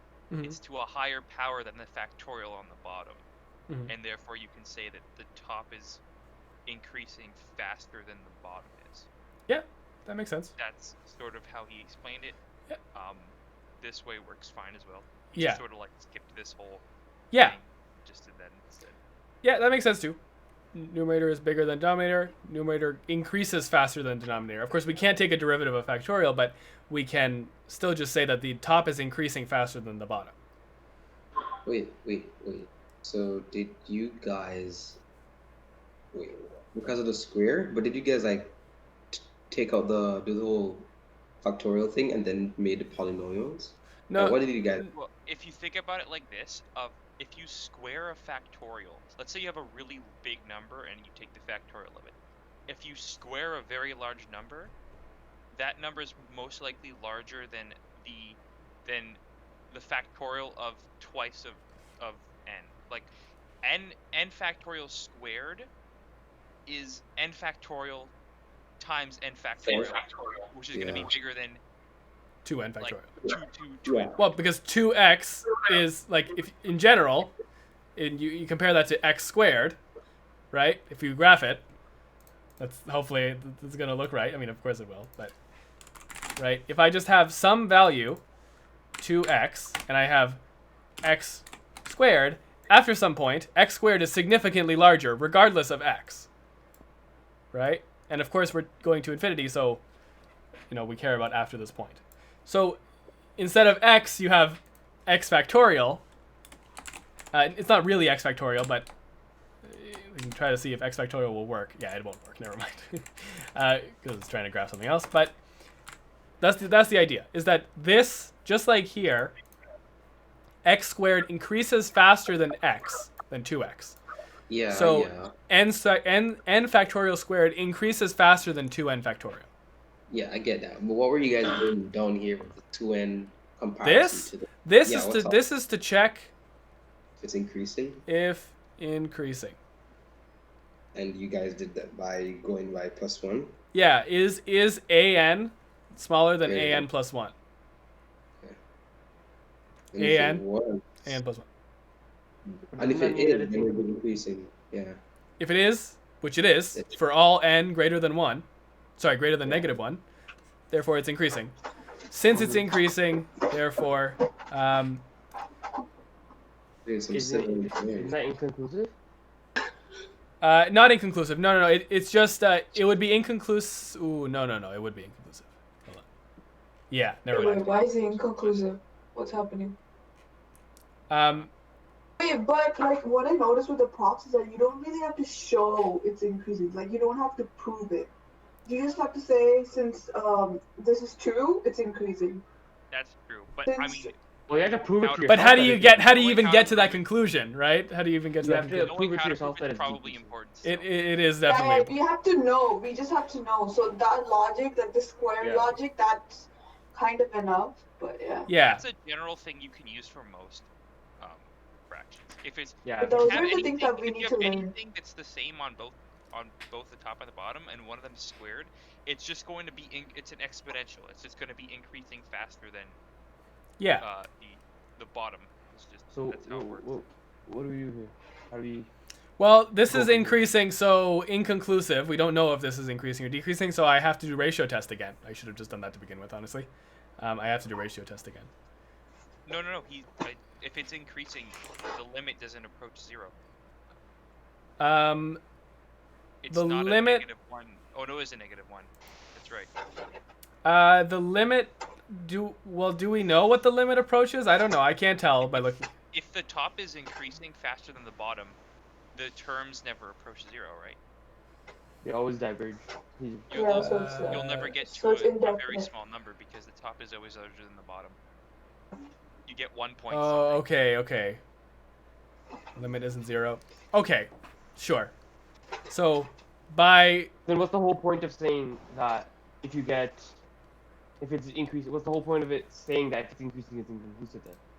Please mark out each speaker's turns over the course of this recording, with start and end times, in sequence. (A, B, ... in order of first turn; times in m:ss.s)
0:00.3-0:00.6 A
0:00.4-0:03.2 B
0:03.9-0:06.0 B
0:06.6-0:09.1 B
0:09.5-0:10.5 A
0:10.6-0:12.4 B
0:12.9-0:16.8 B
0:15.3-0:15.6 A
0:17.3-0:17.6 A
0:17.4-0:19.0 B
0:19.4-0:20.2 A
0:20.7-0:30.3 A
0:31.6-0:35.0 C
0:36.1-0:38.6 C
0:39.1-0:40.9 C
0:41.4-0:44.9 C
0:44.1-0:44.3 A
0:44.8-0:52.1 B
0:52.7-0:54.7 B
0:55.5-0:59.2 B
0:59.7-1:03.1 B
1:03.6-1:05.7 B
1:06.6-1:08.1 B
1:08.8-1:11.6 B
1:10.7-1:11.1 C
1:12.4-1:13.0 A
1:12.8-1:14.2 B
1:13.2-1:14.2 C
1:14.2-1:17.3 A
1:18.0-1:19.8 A
1:20.5-1:21.6 A
1:22.6-1:25.3 A
1:26.4-1:28.2 A
1:29.0-1:30.4 A
1:31.0-1:36.3 A
1:37.5-1:39.8 A
1:40.7-1:42.8 A
1:43.4-1:46.0 A
1:47.3-1:48.9 A
1:49.6-1:53.0 A
1:53.5-1:55.3 A
1:56.4-1:59.3 A
2:00.6-2:04.0 A
2:04.5-2:05.3 C
2:04.7-2:09.4 A
2:10.1-2:15.4 C
2:13.8-2:16.3 A
2:17.2-2:18.0 C
2:18.1-2:19.6 A
2:20.9-2:23.6 C
2:23.7-2:27.3 A
2:26.4-2:26.9 C
2:29.9-2:31.1 C
2:30.0-2:30.4 A
2:31.0-2:31.4 A
2:32.5-2:35.0 C
2:32.7-2:33.7 D
2:35.4-2:38.4 A
2:39.0-2:40.0 A
2:40.7-2:41.5 A
2:42.1-2:45.0 A
2:46.8-2:48.2 C
2:47.1-2:48.9 D
2:50.4-2:56.0 A
2:56.9-2:57.6 A
2:57.3-2:59.8 E
2:57.3-2:58.7 B
3:01.1-3:01.5 A
3:02.2-3:08.1 E
3:08.6-3:12.4 E
3:12.9-3:17.0 B
3:13.6-3:14.1 E
3:14.5-3:16.1 D
3:15.3-3:18.9 A
3:18.4-3:20.3 D
3:18.8-3:20.9 B
3:20.6-3:22.0 A
3:21.4-3:28.5 E
3:25.4-3:25.8 D
3:28.5-3:28.8 A
3:28.6-3:30.7 B
3:31.2-3:43.0 B
3:32.8-3:33.4 D
3:33.0-3:34.7 E
3:44.0-3:47.0 B
3:46.1-3:48.9 D
3:49.4-3:58.5 A
3:49.9-3:50.4 D
3:59.4-4:03.3 B
4:04.8-4:05.4 A
4:06.4-4:09.7 B
4:06.5-4:07.3 A
4:10.6-4:15.9 A
4:15.5-4:18.6 B
4:19.1-4:21.0 B
4:22.0-4:23.5 D
4:23.5-4:28.2 B
4:23.5-4:25.9 E
4:23.8-4:24.7 A
4:29.4-4:30.6 B
4:30.1-4:31.4 A
4:32.8-4:35.1 A
4:35.9-4:37.3 A
4:37.4-4:40.4 D
4:41.2-4:44.6 D